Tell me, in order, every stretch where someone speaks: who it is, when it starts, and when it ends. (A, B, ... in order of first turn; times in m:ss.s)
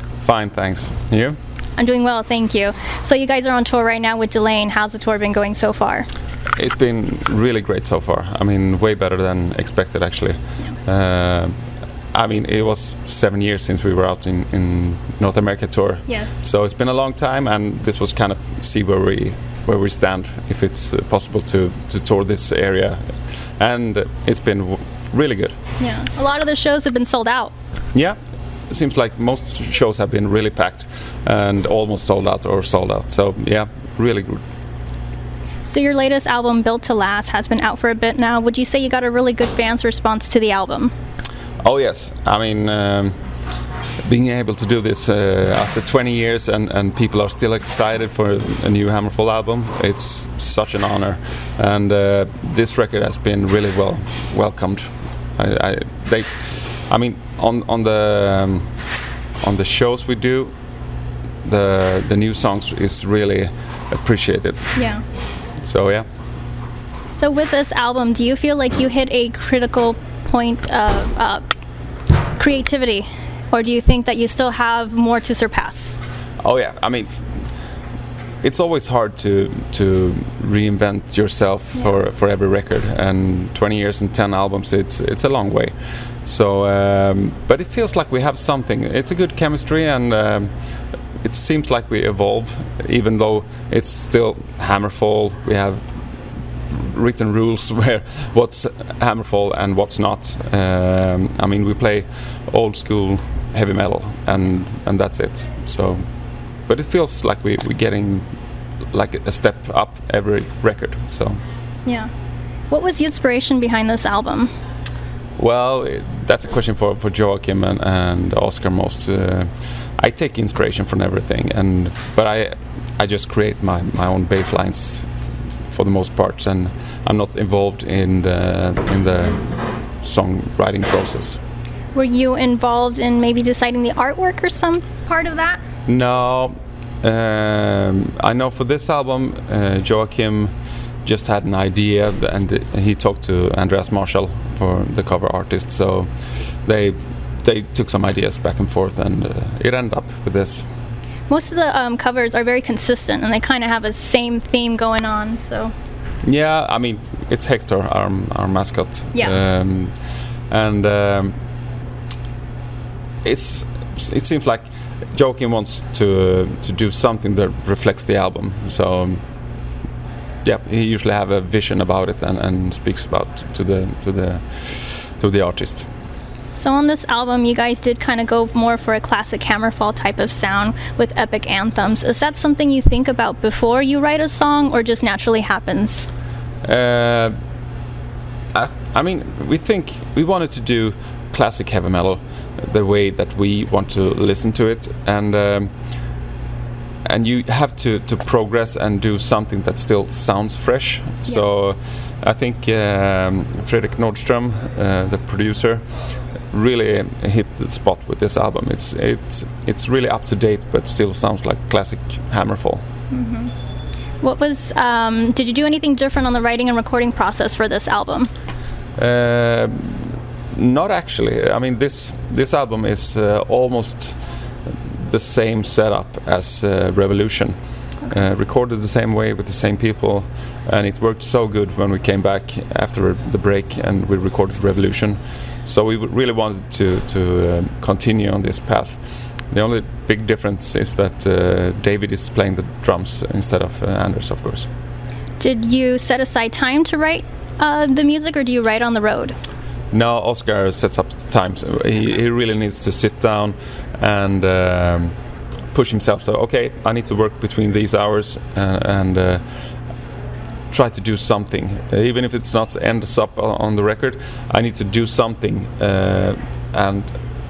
0:00.2-0:01.4 A
0:01.8-0:06.1 B
0:06.6-0:11.5 A
0:12.1-0:25.5 A
0:16.1-0:16.3 B
0:25.8-0:27.5 B
0:28.7-0:34.4 A
0:35.6-0:40.9 B
0:41.6-0:43.2 A
0:44.0-0:58.7 A
0:59.4-1:00.5 A
1:01.4-1:04.8 A
1:04.7-1:05.0 B
1:05.6-1:06.1 A
1:07.1-1:11.4 B
1:12.3-1:16.0 B
1:16.4-1:17.2 A
1:18.4-1:30.5 A
1:31.2-1:35.9 A
1:36.7-1:46.0 A
1:46.7-1:48.2 A
1:48.9-1:51.4 A
1:52.7-1:54.5 B
1:55.4-2:05.2 A
2:05.7-2:11.4 A
2:11.9-2:15.6 B
2:15.9-2:20.5 A
2:21.0-2:30.7 A
2:31.3-2:35.7 B
2:36.2-2:41.3 A
2:43.2-2:49.2 A
2:50.4-2:55.9 A
2:56.5-3:06.1 B
3:06.6-3:07.3 A
3:08.5-3:15.7 A
3:17.0-3:25.9 A
3:26.5-3:32.8 A
3:33.1-3:33.5 B
3:34.2-3:38.3 B
3:39.0-4:04.7 A
4:05.4-4:09.4 B
4:09.9-4:15.1 A
4:15.7-4:19.4 A
4:20.7-4:27.2 A